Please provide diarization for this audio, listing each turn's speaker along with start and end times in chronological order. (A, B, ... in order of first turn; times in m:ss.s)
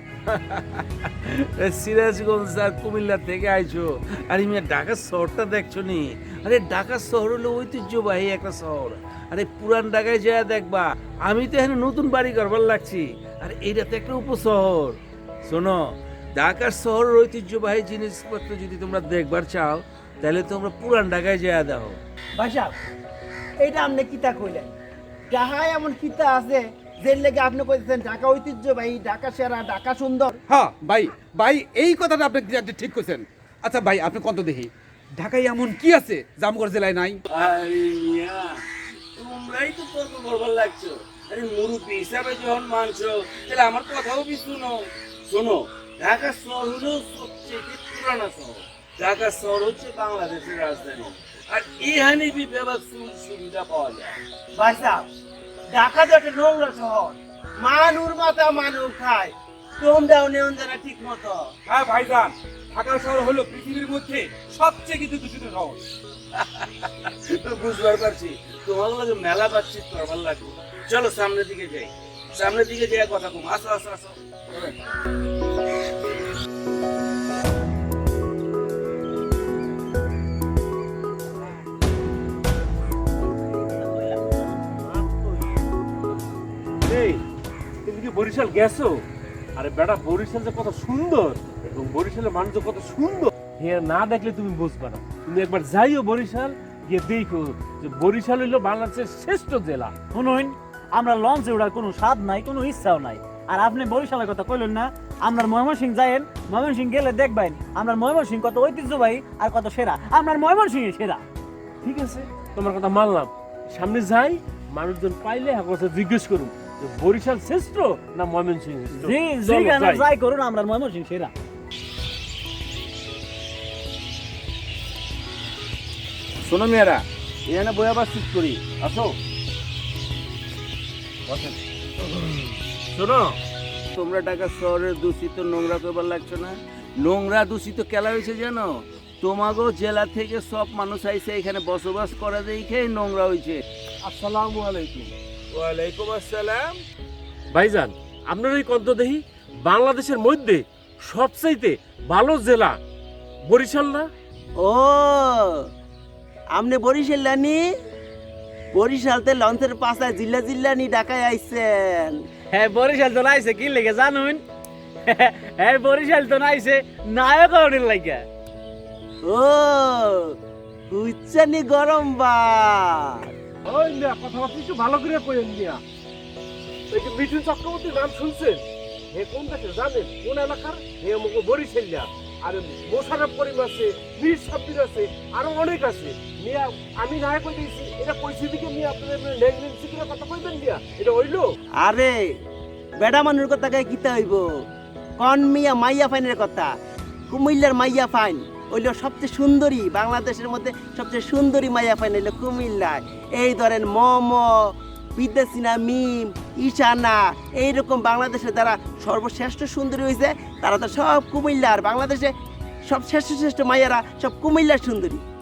0:00.3-0:22.0 A
0:22.4-0:22.8 B
0:23.6-0:24.7 B
0:25.3-0:30.4 B
0:30.5-0:37.2 C
0:37.3-0:38.6 A
0:39.2-0:54.2 A
0:54.6-0:55.1 B
0:55.7-1:01.5 B
1:01.6-1:05.8 C
1:06.4-1:14.7 A
1:23.6-1:24.1 D
1:24.8-1:25.6 E
1:26.9-1:27.2 E
1:27.9-1:29.0 E
1:29.6-1:40.0 E
1:40.1-1:51.2 D
1:51.8-2:00.1 E
1:59.0-2:01.3 D
2:06.4-2:09.1 A
2:11.3-2:13.4 A
2:13.9-2:26.8 A
2:24.1-2:24.9 E
2:27.5-2:32.8 E
2:33.4-2:34.1 E
2:34.6-2:35.7 B
2:36.5-2:37.7 B
2:38.7-2:42.2 B
2:42.5-2:44.4 D
2:45.1-2:48.2 D
2:49.2-2:50.4 B
2:50.9-2:53.3 B
2:53.6-2:55.8 E
2:56.9-3:11.5 E
3:11.8-3:12.3 B
3:13.0-3:14.6 B
3:15.2-3:16.7 B
3:17.3-3:32.3 B
3:32.9-3:35.2 B